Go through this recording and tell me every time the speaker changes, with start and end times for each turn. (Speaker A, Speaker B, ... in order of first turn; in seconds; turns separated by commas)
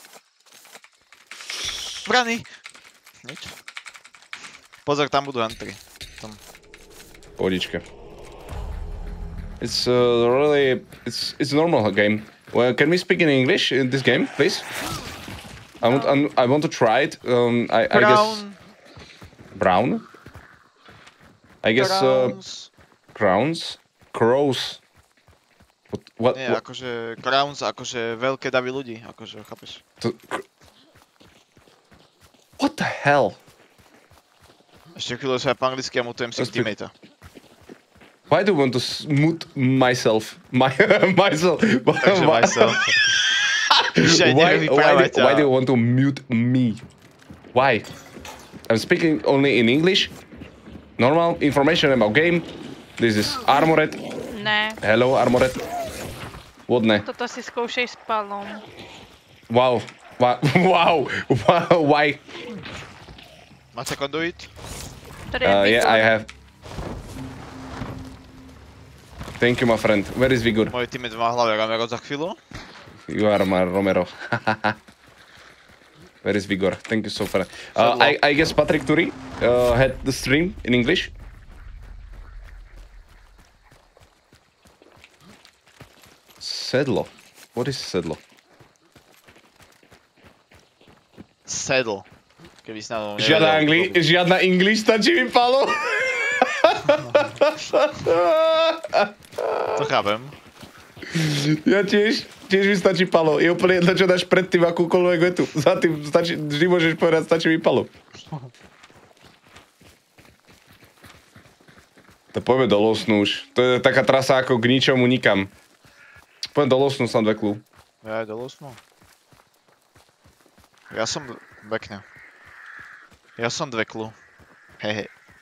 Speaker A: 2.0-2.5, Speaker A: 3.2-3.5, Speaker A: 4.9-6.4, Speaker B: 7.4-7.8, Speaker B: 9.6-14.7, Speaker B: 15.8-18.4, Speaker A: 17.9-18.6, Speaker B: 19.6-20.1, Speaker B: 21.6-22.4, Speaker A: 21.8-22.7, Speaker B: 23.1-24.8, Speaker B: 25.9-26.6, Speaker A: 26.3-29.8, Speaker B: 30.0-30.4, Speaker B: 32.6-33.4, Speaker A: 35.0-36.9, Speaker B: 36.4-36.7, Speaker B: 38.3-42.8, Speaker A: 42.0-43.0, Speaker B: 43.7-46.8, Speaker A: 44.0-45.5, Speaker B: 47.5-47.9, Speaker B: 48.7-50.1, Speaker B: 51.0-54.0, Speaker C: 54.3-54.8, Speaker B: 54.8-55.6, Speaker B: 56.7-57.0, Speaker C: 57.0-58.6, Speaker B: 59.5-62.2, Speaker A: 63.7-64.5, Speaker C: 65.3-66.1, Speaker B: 65.4-66.3, Speaker B: 69.4-70.7, Speaker A: 70.7-72.4, Speaker B: 73.1-74.8, Speaker B: 76.2-81.1, Speaker A: 77.8-78.2, Speaker B: 86.4-88.2, Speaker A: 91.5-92.1, Speaker A: 92.6-94.0, Speaker B: 93.2-99.8, Speaker A: 99.8-100.3, Speaker B: 101.1-107.9, Speaker A: 108.2-108.5, Speaker B: 112.3-115.5, Speaker B: 116.5-117.7, Speaker A: 118.0-118.8, Speaker A: 120.9-122.0, Speaker A: 123.4-124.2, Speaker A: 124.8-125.1